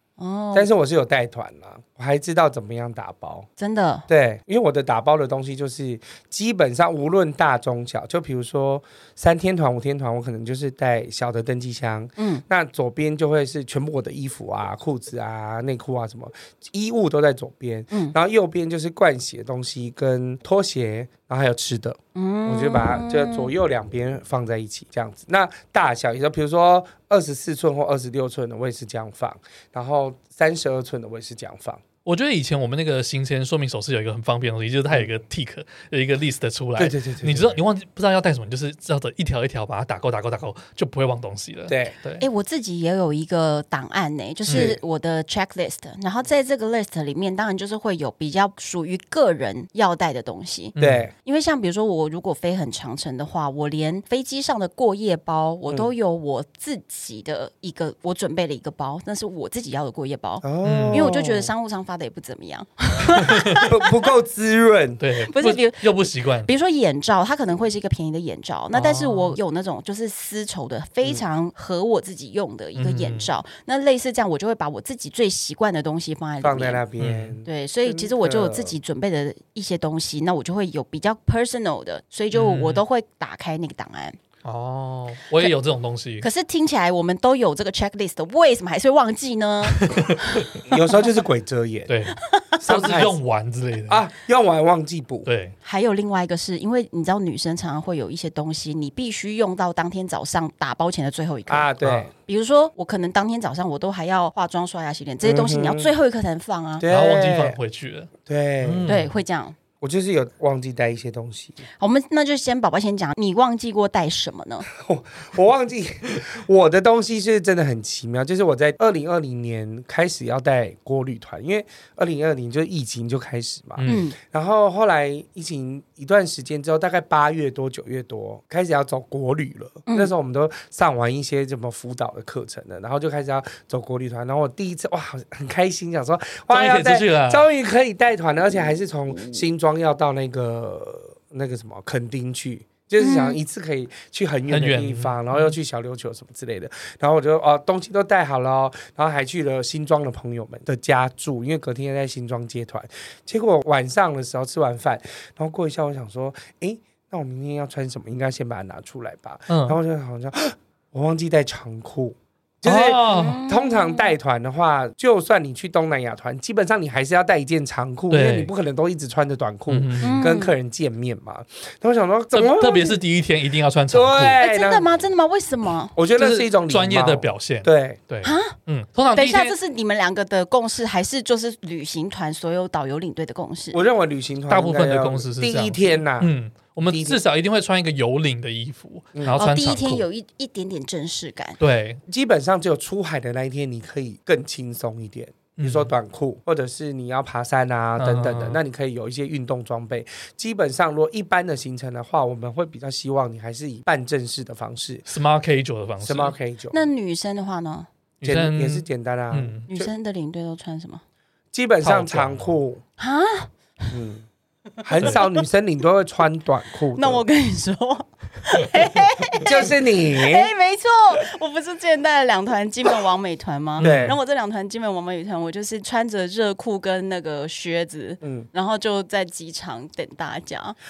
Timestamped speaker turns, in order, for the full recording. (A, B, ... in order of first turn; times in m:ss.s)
0:00.2-0:00.7 A
0:00.5-0:03.5 B
0:03.6-0:04.1 A
0:04.1-0:31.8 B
0:12.2-0:12.4 A
0:22.2-0:23.5 A
0:32.0-0:42.2 C
0:36.8-0:37.6 B
0:41.7-0:42.0 B
0:42.2-1:03.9 A
0:44.5-0:44.7 C
0:44.5-0:44.8 B
0:50.8-0:51.1 C
0:50.8-0:51.1 B
1:00.4-1:01.5 B
1:00.6-1:01.0 C
1:03.7-1:05.0 B
1:05.0-1:06.5 C
1:05.3-1:16.8 A
1:08.7-1:09.4 C
1:12.8-1:13.3 C
1:16.4-1:18.8 B
1:17.0-1:17.4 C
1:17.4-1:24.2 A
1:22.3-1:22.8 C
1:24.4-1:26.3 C
1:26.2-1:30.5 A
1:29.7-1:30.4 C
1:30.6-1:32.0 B
1:31.9-1:34.0 C
1:32.3-1:32.6 A
1:32.6-1:33.2 B
1:33.9-1:35.3 B
1:35.3-1:35.5 C
1:35.6-1:46.9 A
1:41.5-1:42.1 B
1:45.2-1:45.9 B
1:46.8-1:47.6 B
1:46.9-1:48.1 C
1:48.3-1:49.0 B
1:48.6-1:49.1 C
1:48.9-1:49.6 A
1:49.8-1:51.6 B
1:51.8-1:54.7 A
1:54.7-2:53.0 B
2:03.8-2:04.0 C
2:03.8-2:04.2 A
2:16.5-2:17.5 C
2:19.1-2:19.4 A
2:23.0-2:23.4 A
2:24.5-2:25.5 C
2:39.5-2:39.8 C
2:42.6-2:43.4 C
2:43.0-2:44.1 A
2:48.1-2:48.5 C
2:49.7-2:50.4 C
2:50.0-2:50.5 A
2:52.3-2:54.4 C
2:53.9-2:55.1 B
2:54.4-2:56.0 A
2:56.0-2:58.0 B
2:56.2-2:59.6 C
2:58.2-2:58.6 A
2:59.1-3:03.8 A
3:03.7-3:06.3 B
3:04.5-3:10.0 C
3:06.9-3:07.2 B
3:09.3-3:11.6 A
3:11.6-3:12.0 C
3:12.1-3:25.1 B
3:15.6-3:15.9 C
3:18.0-3:18.6 C
3:25.1-3:26.3 C
3:26.0-3:26.9 B
3:26.7-3:27.9 A
3:28.2-3:29.6 C
3:28.2-3:29.9 B
3:29.7-3:31.0 A
3:31.5-3:32.8 B
3:31.8-3:32.6 C
3:33.0-3:33.9 A
3:33.9-3:34.3 B
3:34.8-3:37.2 B
3:37.0-3:50.8 A
3:39.4-3:40.5 B
3:43.8-3:44.2 C
3:43.8-3:44.2 B
3:48.2-3:48.5 B